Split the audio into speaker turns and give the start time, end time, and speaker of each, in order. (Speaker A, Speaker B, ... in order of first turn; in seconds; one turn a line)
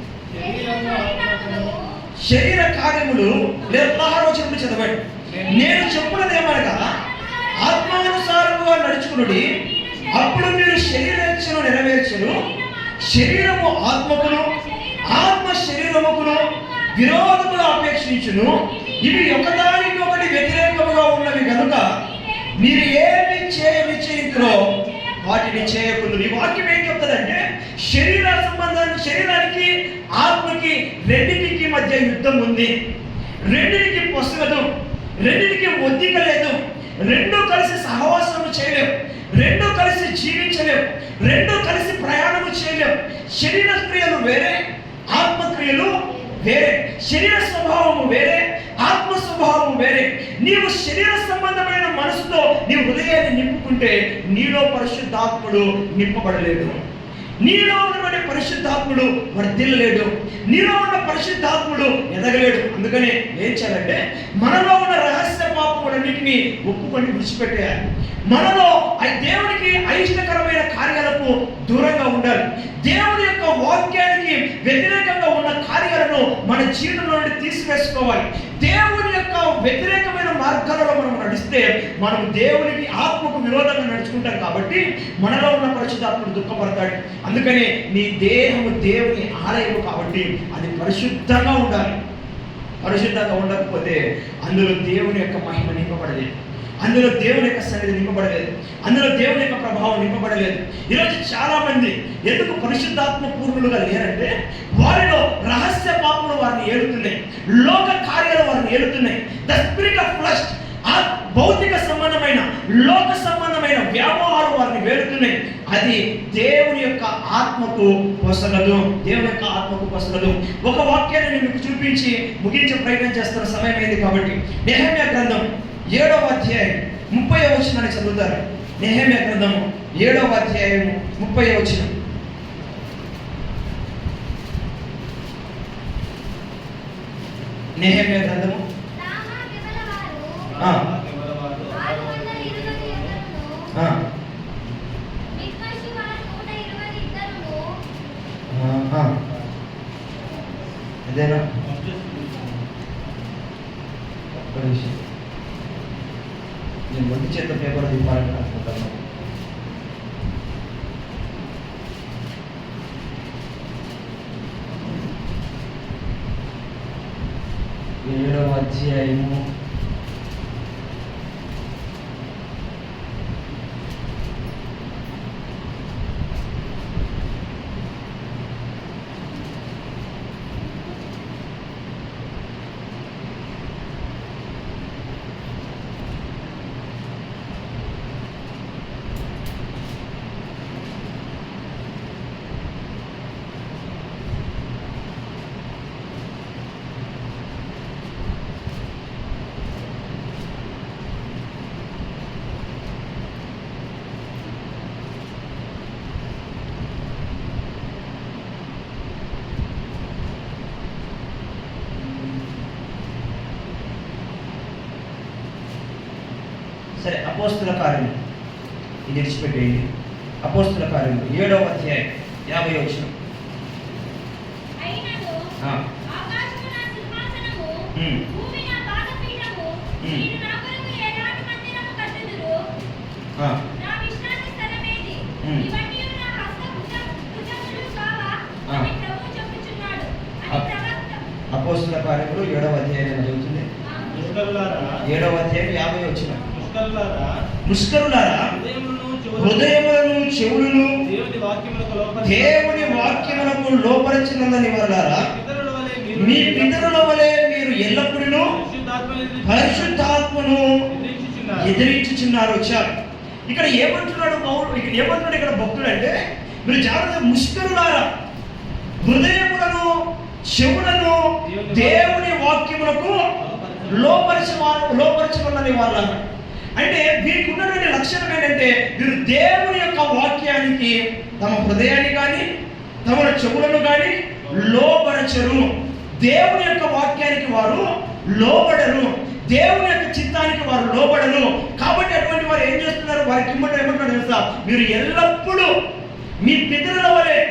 Speaker A: 0.3-1.8
Speaker B: 0.3-2.1
Speaker C: 2.2-6.8
Speaker B: 3.7-4.1
Speaker A: 5.3-5.6
Speaker B: 5.4-8.5
Speaker C: 7.5-9.5
Speaker B: 9.2-11.3
Speaker C: 10.1-12.4
Speaker B: 12.5-15.4
Speaker C: 13.0-14.5
Speaker C: 15.0-16.4
Speaker B: 16.2-17.2
Speaker C: 16.9-21.9
Speaker B: 18.6-19.7
Speaker B: 21.8-25.7
Speaker C: 22.5-32.7
Speaker C: 33.5-34.6
Speaker C: 35.2-44.6
Speaker C: 45.1-56.8
Speaker C: 57.4-67.8
Speaker C: 68.3-92.0
Speaker C: 92.8-131.9
Speaker C: 137.8-138.6
Speaker B: 138.9-140.5
Speaker A: 140.5-143.2
Speaker C: 140.6-140.8
Speaker B: 141.7-143.7
Speaker C: 143.7-144.0
Speaker B: 145.3-147.8
Speaker C: 148.5-149.1
Speaker C: 151.1-151.4
Speaker A: 151.6-152.6
Speaker C: 154.4-155.0
Speaker C: 156.9-159.0
Speaker C: 168.0-169.4
Speaker C: 212.0-212.5
Speaker C: 217.0-218.2
Speaker C: 219.1-219.8
Speaker C: 220.4-223.1
Speaker B: 224.8-232.7
Speaker C: 227.9-228.2
Speaker C: 230.0-230.3
Speaker B: 233.6-241.3
Speaker C: 235.4-235.7
Speaker C: 241.5-243.7
Speaker B: 243.8-244.2
Speaker A: 244.1-245.0
Speaker C: 245.0-246.4
Speaker A: 246.5-247.3
Speaker C: 247.7-248.5
Speaker A: 248.5-249.8
Speaker C: 249.3-251.0
Speaker A: 251.0-253.5
Speaker C: 252.2-255.3
Speaker A: 255.1-257.1
Speaker C: 256.1-258.5
Speaker A: 258.5-260.0
Speaker C: 259.4-260.7
Speaker A: 260.9-261.9
Speaker C: 261.6-262.9
Speaker C: 263.5-268.1
Speaker C: 269.0-270.0
Speaker C: 270.5-273.2
Speaker A: 271.4-272.2
Speaker A: 273.4-274.4
Speaker C: 273.9-276.2
Speaker C: 276.8-282.4
Speaker C: 283.0-295.7
Speaker C: 296.4-297.4